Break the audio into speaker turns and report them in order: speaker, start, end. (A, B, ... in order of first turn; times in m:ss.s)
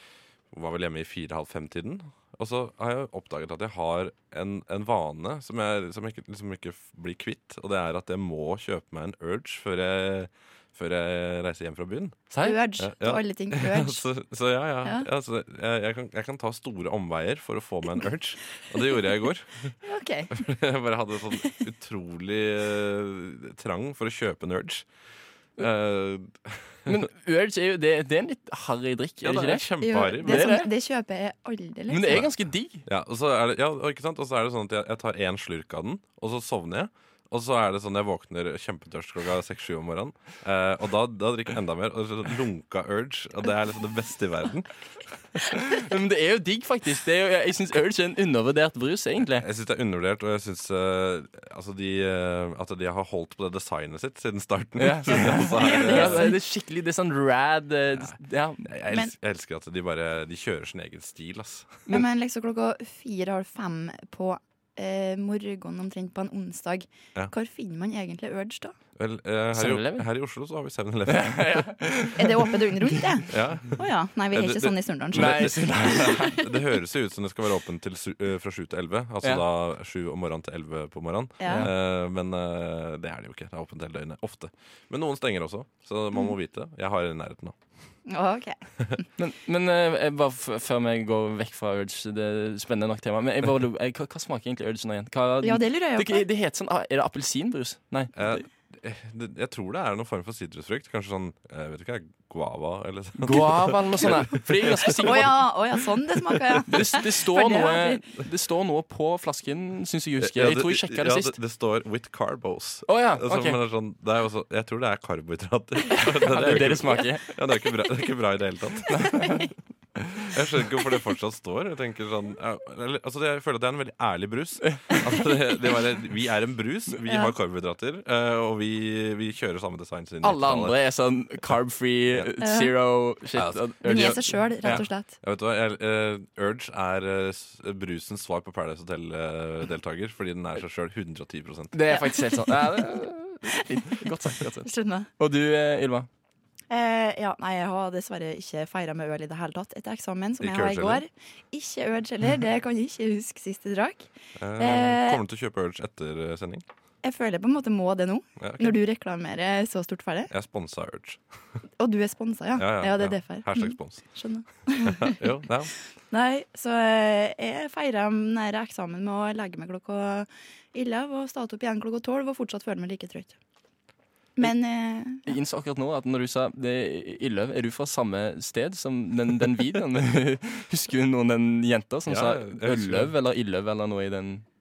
0:00.5-0:12.3 A
0:12.3-0:12.6 B
0:12.4-0:14.0 C
0:12.8-0:19.8 A
0:19.8-0:20.5 C
0:20.3-0:24.9 A
0:25.6-0:27.1 A
0:26.9-0:30.7 B
0:29.2-0:30.6 A
0:29.8-0:32.2 C
0:31.9-0:32.8 B
0:32.9-0:44.7 A
0:45.6-0:49.5 B
0:49.4-0:56.3 A
0:54.8-0:58.7 B
0:55.6-0:56.4 C
0:57.9-1:01.9 A
1:01.9-1:08.8 C
1:09.0-1:11.9 A
1:09.5-1:10.1 B
1:11.1-1:13.3 B
1:12.2-1:16.1 C
1:13.3-1:27.6 A
1:15.1-1:16.4 B
1:21.4-1:21.7 C
1:28.1-1:29.0 C
1:29.2-1:38.4 B
1:35.4-1:36.2 C
1:38.2-1:45.3 A
1:43.2-1:45.5 B
1:45.0-1:48.0 C
1:46.7-1:51.4 B
1:50.2-1:59.3 A
1:52.9-1:53.6 B
1:56.2-1:57.2 B
1:58.9-2:00.3 B
2:00.3-2:10.8 A
2:07.1-2:07.3 C
2:10.2-2:14.8 B
2:12.4-2:12.7 C
2:13.4-2:21.9 A
2:13.8-2:15.1 C
2:21.7-2:26.1 B
2:21.9-2:22.4 C
2:24.6-2:25.1 C
2:26.7-2:35.2 C
2:30.4-2:31.0 A
2:34.4-2:36.6 A
2:37.0-2:40.3 C
2:38.4-2:38.8 A
2:40.3-2:41.2 A
2:41.8-2:45.2 C
2:42.6-2:44.1 A
2:44.8-2:45.7 A
2:46.1-2:53.4 C
2:54.4-2:55.2 C
2:55.3-3:04.4 B
3:02.1-3:03.1 A